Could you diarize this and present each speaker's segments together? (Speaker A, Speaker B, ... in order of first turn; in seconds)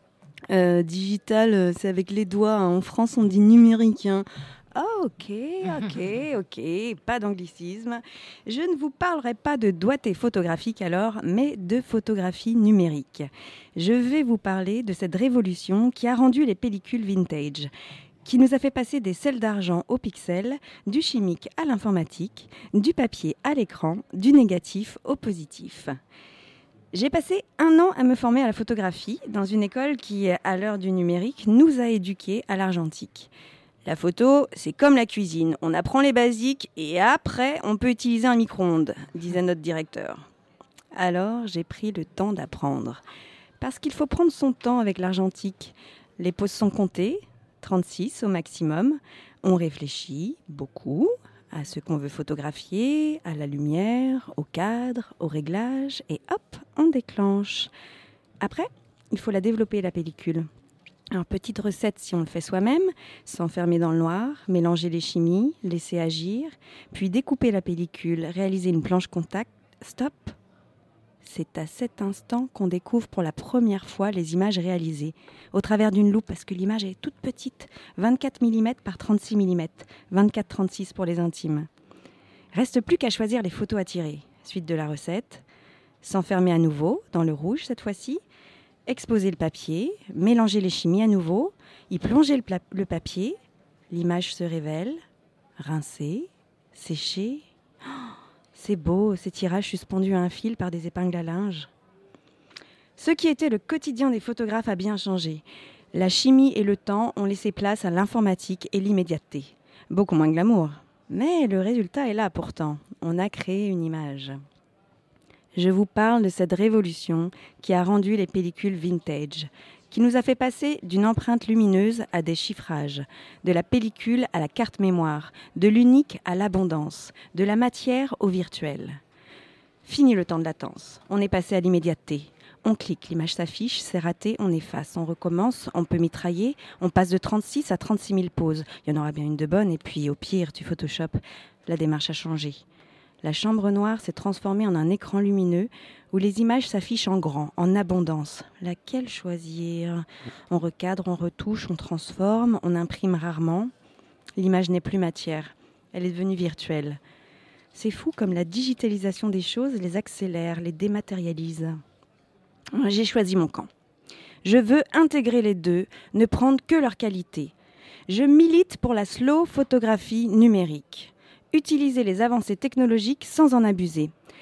Speaker A: 0.5-17.7, 18.2-26.0, 26.9-33.3, 33.9-40.2, 40.9-43.0, 43.6-57.7, 58.4-60.5, 61.1-70.3, 71.2-81.7, 82.5-85.4, 86.0-88.2, 88.9-93.4, 93.9-95.0, 95.6-101.7, 103.0-114.4, 115.5-129.0, 129.8-142.6, 143.2-153.7, 154.4-157.0, 157.7-161.8, 162.7-163.7, 164.4-167.5, 168.1-174.1